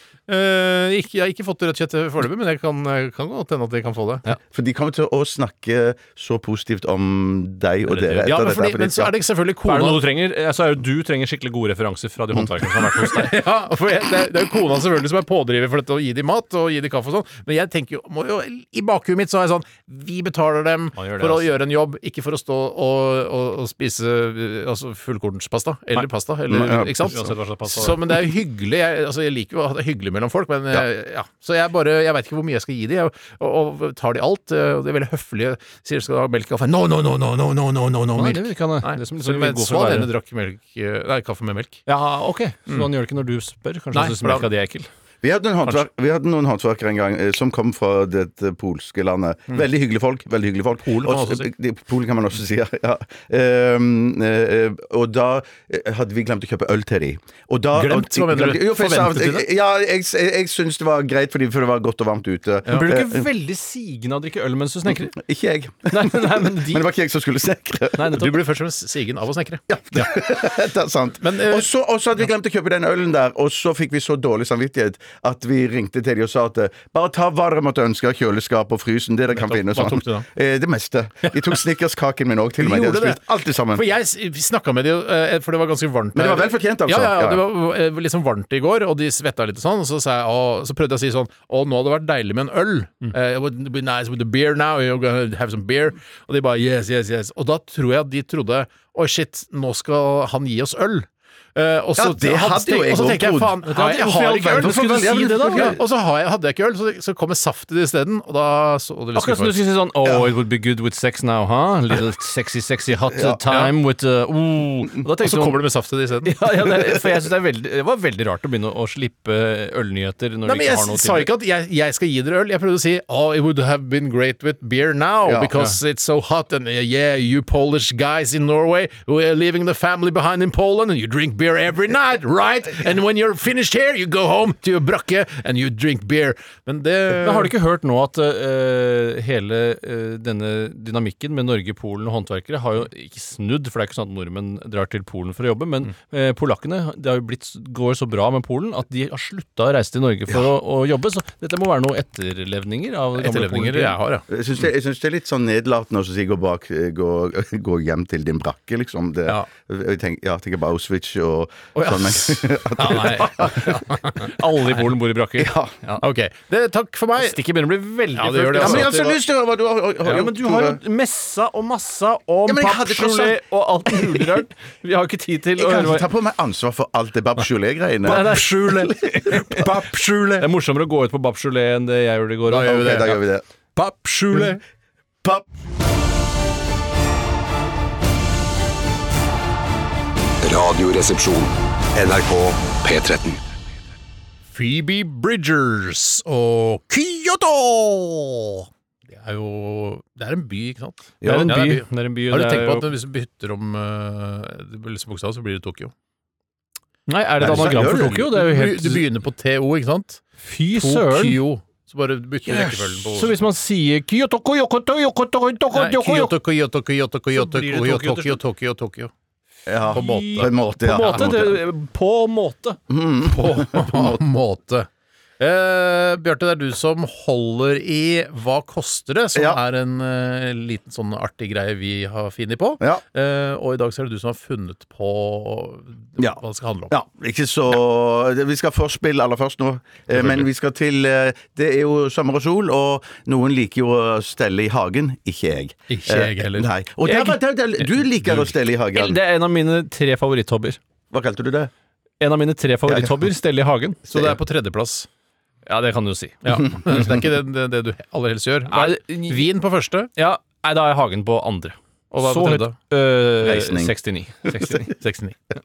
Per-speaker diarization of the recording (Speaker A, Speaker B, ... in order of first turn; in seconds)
Speaker A: 0.3-4.2, 8.1-10.0, 12.7-41.8, 43.9-44.5, 50.8-51.5, 57.7-59.5, 62.7-62.9, 68.1-70.1, 71.2-71.7, 79.3-80.3, 82.6-83.2, 83.7-109.6, 113.5-113.7, 115.2-116.4, 120.5-137.5, 153.2-154.2, 161.8-164.3, 166.0-167.4, 168.1-169.2, 178.1-180.5, 182.5-183.2, 183.8-184.6, 194.5-205.9, 207.4-213.3, 215.7-219.1, 219.9-220.5, 223.2-224.9, 225.4-236.9, 240.1-240.4, 245.9-247.2, 254.1-255.1, 256.4-260.1, 262.1-262.7, 264.9-265.3
Speaker B: 4.5-9.1, 26.5-27.2, 45.2-63.3, 65.0-68.1, 69.7-83.8, 86.1-87.4, 102.0-103.6, 104.4-105.8, 113.1-113.4, 125.2-125.5, 154.3-163.6, 165.4-165.8, 168.6-170.8, 172.5-174.3, 175.6-179.6, 182.6-183.4, 201.2-201.5, 207.4-208.3, 219.7-221.6, 222.9-224.2, 236.2-249.2, 251.1-251.7, 252.9-253.2, 254.1-254.3, 263.4-263.9
Speaker C: 9.6-13.3, 20.9-21.5, 27.0-28.0, 38.1-40.1, 41.9-44.9, 62.7-65.2, 65.9-66.9, 68.0-68.3, 103.6-105.8, 109.1-115.6, 116.2-121.3, 137.1-154.0, 162.9-166.0, 167.2-169.0, 170.0-176.1, 178.0-179.7, 180.4-183.1, 201.2-202.9, 207.1-209.0, 210.4-211.4, 212.5-216.3, 217.3-218.4, 219.9-222.8, 248.9-250.8, 252.2-254.0, 255.7-256.8, 258.7-259.5, 260.1-264.9
Speaker D: 190.4-193.5